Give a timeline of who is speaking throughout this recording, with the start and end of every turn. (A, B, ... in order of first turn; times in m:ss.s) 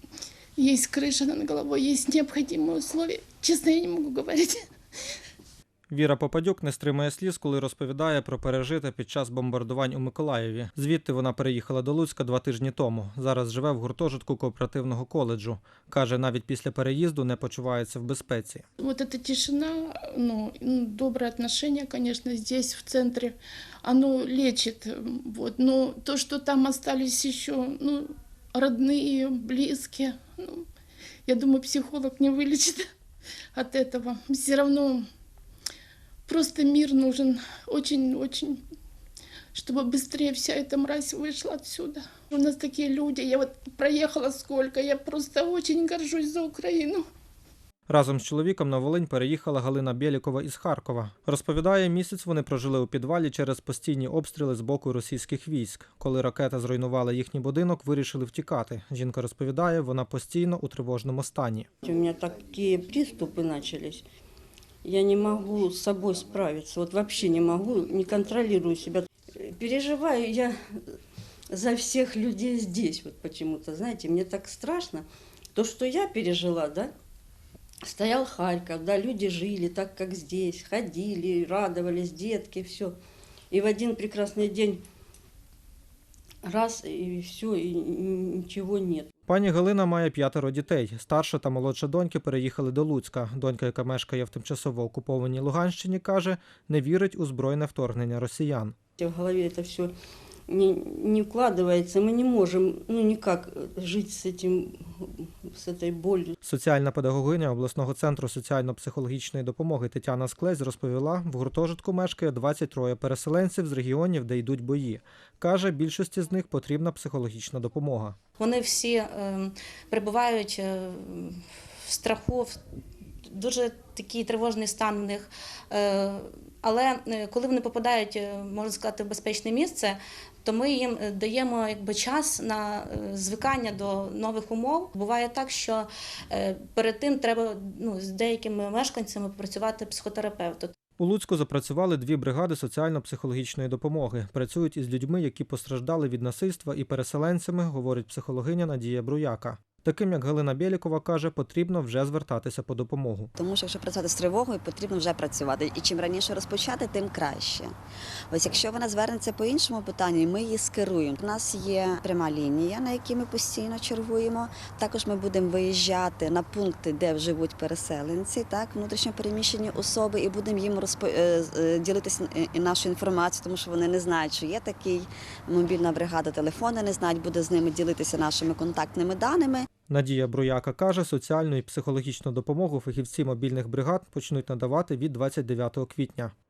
0:00.6-0:04.6 A
0:05.9-0:18.6 B
0:18.8-0:30.6 A
0:31.3-0:32.9 A
0:33.5-0:35.0 A
0:36.3-0:38.6 A
0:39.5-0:47.0 A
0:47.9-1:01.7 B
1:01.8-1:04.0 C
1:04.8-1:11.0 C
1:11.5-1:16.9 C
1:17.8-1:23.0 C
1:23.5-1:24.8 C
1:26.4-1:29.1 C
1:29.3-1:38.8 B
1:39.0-1:39.9 C
1:40.5-1:46.3 C
1:46.4-1:58.2 B
1:58.4-2:02.6 D
2:03.3-2:20.7 D
2:21.0-2:33.3 B
2:33.4-2:37.7 E
2:38.3-2:59.6 E
2:59.9-3:06.3 B